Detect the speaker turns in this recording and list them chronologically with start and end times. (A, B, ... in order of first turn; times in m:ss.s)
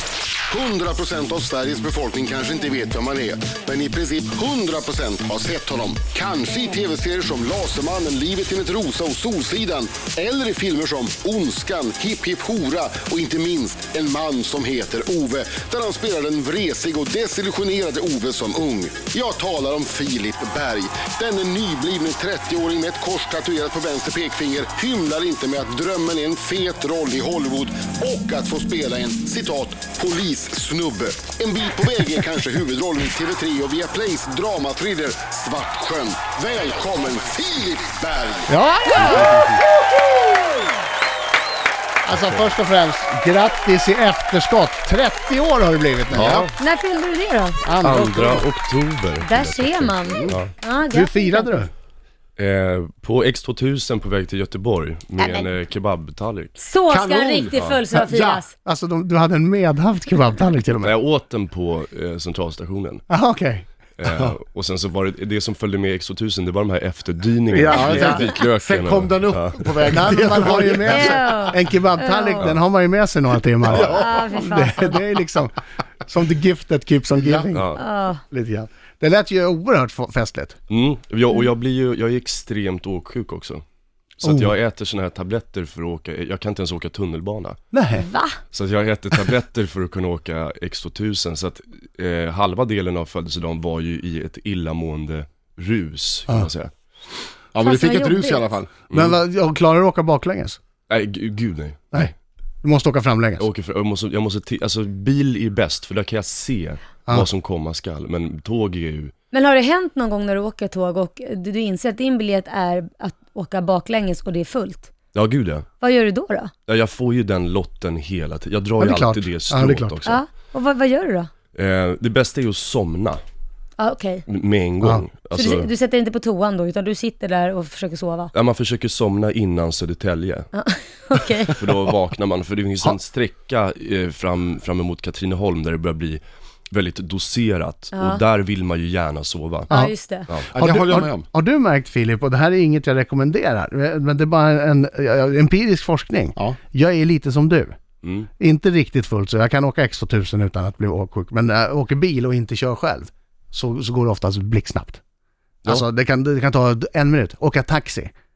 0:00.5-0:38.5 A
0:38.5-0:39.5 B
0:38.9-0:39.4 C
0:42.0-0:46.4 B
0:46.1-0:46.6 D
0:46.6-0:47.6 C
0:47.6-0:48.4 B
0:47.8-0:50.5 D
0:49.2-0:51.6 C
0:50.9-0:51.7 B
0:52.4-0:56.6 D
0:55.2-0:55.5 C
0:56.6-0:58.5 C
0:56.9-0:58.4 E
0:57.5-0:57.8 D
0:58.6-1:00.9 B
1:00.8-1:03.0 D
1:03.1-1:03.7 B
1:04.0-1:10.2 D
1:07.5-1:08.2 B
1:07.6-1:11.2 E
1:09.9-1:17.7 B
1:10.8-1:12.4 C
1:13.7-1:14.2 E
1:13.8-1:15.0 C
1:17.5-1:17.8 D
1:17.8-1:18.2 C
1:18.3-1:20.6 B
1:20.7-1:23.6 D
1:24.2-1:27.6 D
1:24.2-1:24.5 B
1:27.7-1:28.1 B
1:27.9-1:28.4 C
1:28.5-1:36.7 D
1:37.5-1:38.7 E
1:37.6-1:38.4 C
1:38.9-1:40.6 B
1:38.9-1:39.2 D
1:40.9-1:42.1 D
1:41.9-1:43.4 B
1:43.4-1:49.1 D
1:49.3-1:54.9 C
1:55.1-1:55.7 D
1:55.8-1:56.5 C
1:56.7-2:00.2 D
1:58.8-2:00.1 B
2:00.0-2:01.3 C
2:01.5-2:03.2 D
2:03.8-2:04.2 C
2:04.3-2:05.7 D
2:05.3-2:08.3 C
2:08.3-2:10.5 D
2:10.5-2:11.7 C
2:11.5-2:19.7 D
2:17.9-2:18.2 C
2:19.7-2:20.3 C
2:20.5-2:21.3 E
2:20.5-2:27.8 B
2:28.0-2:28.3 D
2:28.4-2:35.0 B
2:35.6-2:38.1 B